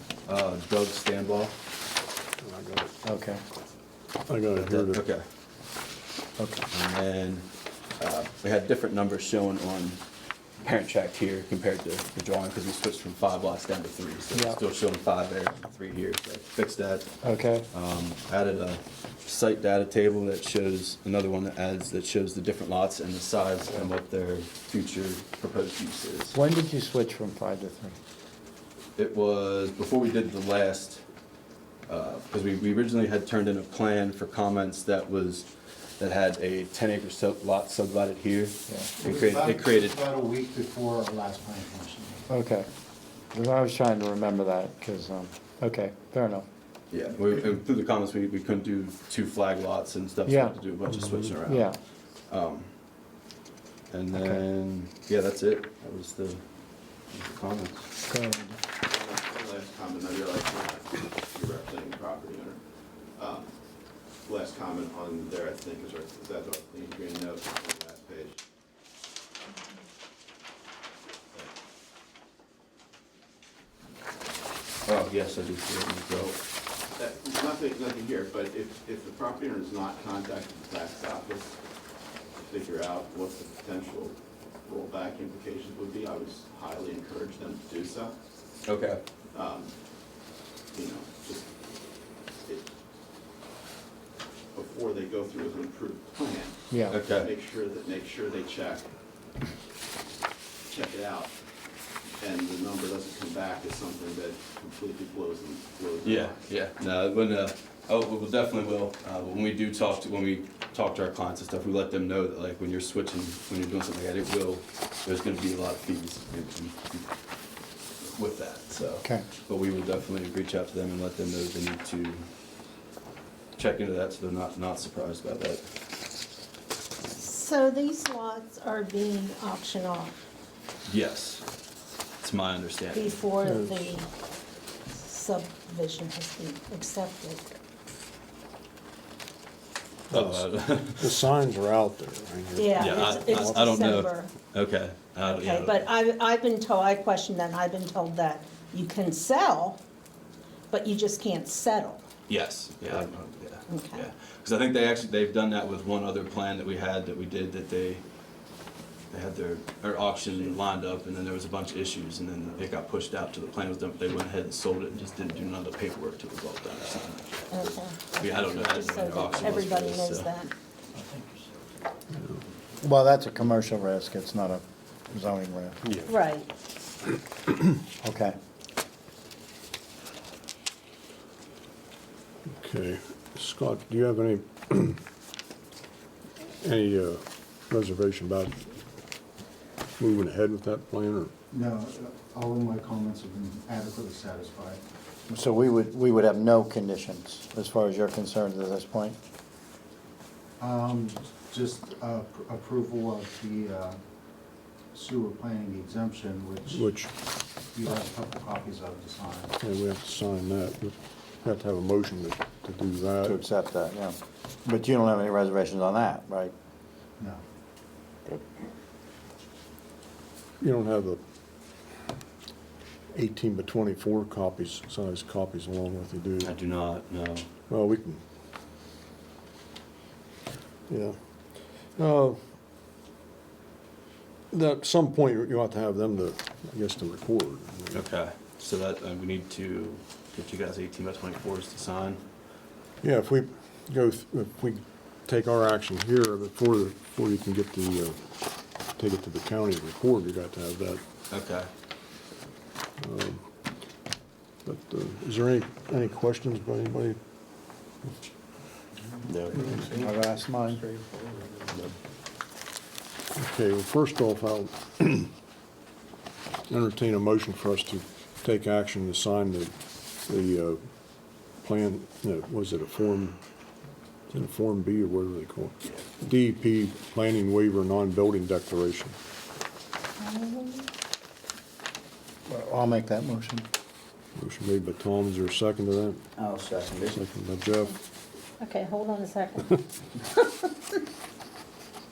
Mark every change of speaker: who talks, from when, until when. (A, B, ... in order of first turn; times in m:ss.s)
0:00.2-0:01.6 A
0:02.4-0:02.9 B
0:03.0-0:03.4 C
0:04.3-0:05.0 B
0:04.6-0:05.3 A
0:06.4-0:06.6 C
0:06.7-0:10.0 A
0:10.6-0:17.1 A
0:14.3-0:14.6 C
0:17.2-0:17.7 C
0:17.7-0:26.3 A
0:23.6-0:23.9 C
0:26.3-0:28.0 C
0:29.0-0:31.0 A
0:31.9-0:35.5 A
0:36.0-0:40.0 A
0:39.0-0:42.2 D
0:42.3-0:42.7 C
0:43.3-0:46.4 C
0:46.9-0:51.7 A
0:50.3-0:50.6 C
0:51.4-0:51.8 C
0:52.3-0:52.7 A
0:53.9-0:56.4 A
0:54.1-0:54.4 C
0:57.1-0:57.9 A
0:58.1-0:58.6 C
0:58.8-1:02.6 E
1:03.2-1:03.5 E
1:04.2-1:08.4 E
1:14.8-1:16.3 A
1:16.1-1:16.4 E
1:17.0-1:21.5 E
1:22.4-1:28.2 E
1:28.6-1:29.0 A
1:29.3-1:29.7 E
1:30.7-1:31.5 E
1:34.5-1:38.9 E
1:36.7-1:37.0 C
1:36.9-1:37.3 A
1:40.7-1:41.3 E
1:42.2-1:46.4 E
1:46.0-1:57.1 A
1:58.1-2:02.3 A
2:03.6-2:05.6 A
2:07.1-2:10.2 F
2:10.8-2:11.4 A
2:12.2-2:13.2 A
2:12.9-2:14.1 F
2:13.4-2:13.9 B
2:14.9-2:17.5 F
2:20.1-2:21.2 A
2:20.1-2:24.0 B
2:22.6-2:24.3 F
2:22.8-2:25.9 A
2:25.2-2:29.8 F
2:30.7-2:32.1 F
2:32.3-2:38.0 A
2:33.7-2:34.0 F
2:39.1-2:50.3 A
2:47.5-2:50.5 F
2:52.8-2:55.8 C
2:56.0-2:56.5 F
2:58.0-2:58.4 C
3:02.5-3:05.0 B
3:06.6-3:08.6 B
3:10.0-3:11.3 B
3:11.5-3:14.8 D
3:15.3-3:19.2 C
3:20.6-3:24.0 D
3:24.9-3:26.8 D
3:26.7-3:27.1 B
3:27.7-3:29.5 D
3:29.6-3:33.4 B
3:33.2-3:36.5 C
3:40.6-3:41.2 B
3:43.1-3:46.5 B
3:46.4-3:47.5 A
3:47.7-3:48.2 B
3:50.9-3:52.4 B
3:54.5-3:58.0 B
3:57.9-4:02.2 A
4:03.0-4:08.2 B
4:08.9-4:11.0 B
4:11.3-4:11.7 A
4:13.0-4:13.5 B
4:14.6-4:17.2 B
4:19.3-4:19.7 A
4:19.8-4:20.8 C
4:23.4-4:25.3 B
4:26.7-4:33.4 B
4:34.3-4:39.1 B
4:40.2-4:40.8 F
4:42.5-4:43.7 C
4:44.4-4:46.2 B
4:47.1-4:47.9 B
4:48.6-4:49.6 F